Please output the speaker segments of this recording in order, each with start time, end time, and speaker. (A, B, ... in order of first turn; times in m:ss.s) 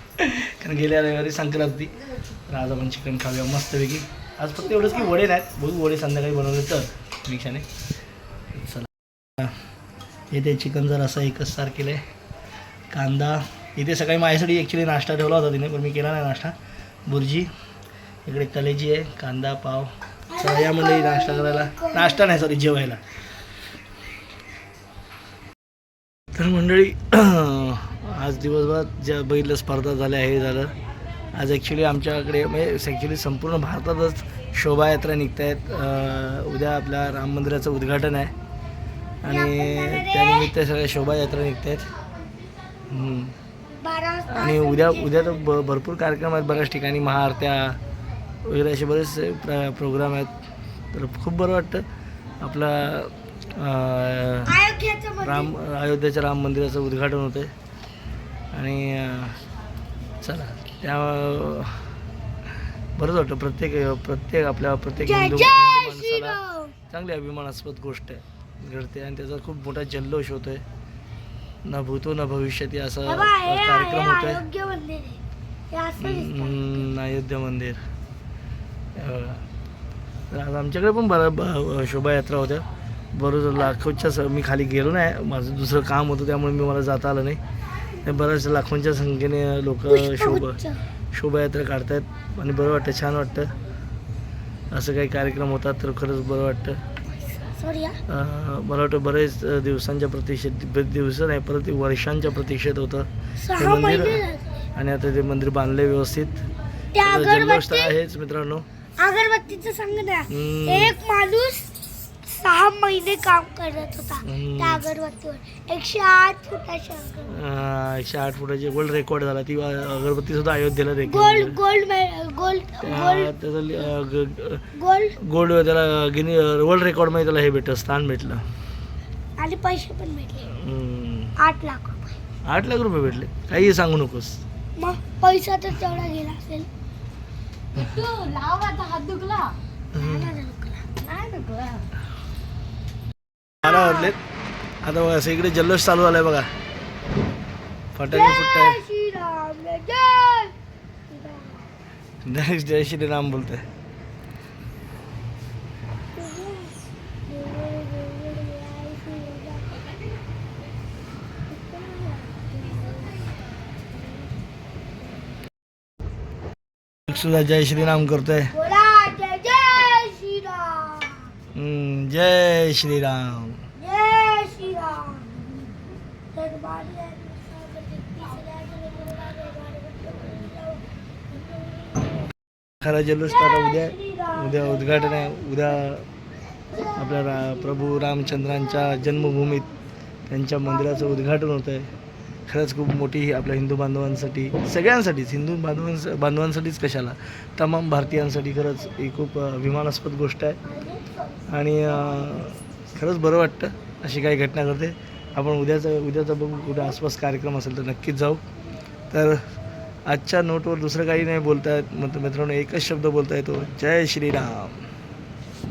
0:00.2-0:07.6 A
0:04.8-0:05.1 B
0:08.5-0:09.5 A
0:10.3-0:12.0 A
0:12.9-0:16.5 A
0:17.1-0:17.5 A
0:18.2-0:23.0 A
0:20.3-0:22.2 B
0:26.3-0:30.7 A
0:31.3-0:38.3 A
0:39.2-0:41.9 A
0:39.3-0:40.5 B
0:42.9-0:43.3 A
0:43.8-0:45.4 B
0:44.3-0:47.8 A
0:48.4-0:50.3 A
0:50.9-0:51.8 A
0:52.4-0:54.6 A
0:54.4-0:55.5 B
0:55.2-0:57.5 A
0:58.5-0:59.4 A
1:00.2-1:01.8 A
1:03.0-1:06.4 A
1:05.0-1:06.7 B
1:06.9-1:10.6 A
1:11.6-1:14.4 A
1:13.0-1:16.7 B
1:16.0-1:17.8 A
1:19.0-1:19.4 A
1:20.3-1:27.4 A
1:28.0-1:30.6 A
1:29.9-1:30.8 B
1:31.1-1:33.5 A
1:34.7-1:36.8 A
1:37.4-1:38.0 B
1:38.1-1:44.2 A
1:43.4-1:44.4 B
1:44.7-1:46.4 A
1:46.9-1:47.9 B
1:47.0-1:48.6 A
1:49.0-1:51.7 B
1:50.3-1:51.0 A
1:52.2-1:57.3 B
1:54.2-1:54.8 A
1:57.2-2:01.6 A
2:01.0-2:03.3 B
2:02.8-2:04.6 A
2:04.8-2:05.2 B
2:05.2-2:08.4 A
2:09.4-2:10.5 B
2:10.5-2:11.4 A
2:11.4-2:12.1 B
2:12.5-2:14.4 A
2:14.8-2:16.7 B
2:17.8-2:19.5 C
2:19.9-2:20.3 A
2:19.9-2:21.0 B
2:21.0-2:21.8 C
2:23.6-2:24.2 A
2:23.6-2:24.1 B
2:24.8-2:26.5 A
2:27.9-2:28.8 A
2:28.1-2:30.5 B
2:31.1-2:31.7 B
2:32.2-2:33.6 A
2:36.1-2:39.9 B
2:41.5-2:43.2 B
2:47.1-2:48.5 A
2:48.5-2:51.3 B
2:51.5-2:53.6 A
2:53.8-2:55.3 B
2:56.3-3:00.8 B
3:01.5-3:02.2 B
3:02.8-3:06.1 A
3:03.3-3:05.3 B
3:06.9-3:09.7 A
3:10.3-3:11.9 A
3:12.5-3:20.6 A
3:20.6-3:21.4 B
3:21.5-3:28.4 A
3:29.1-3:29.4 A
3:30.1-3:34.8 A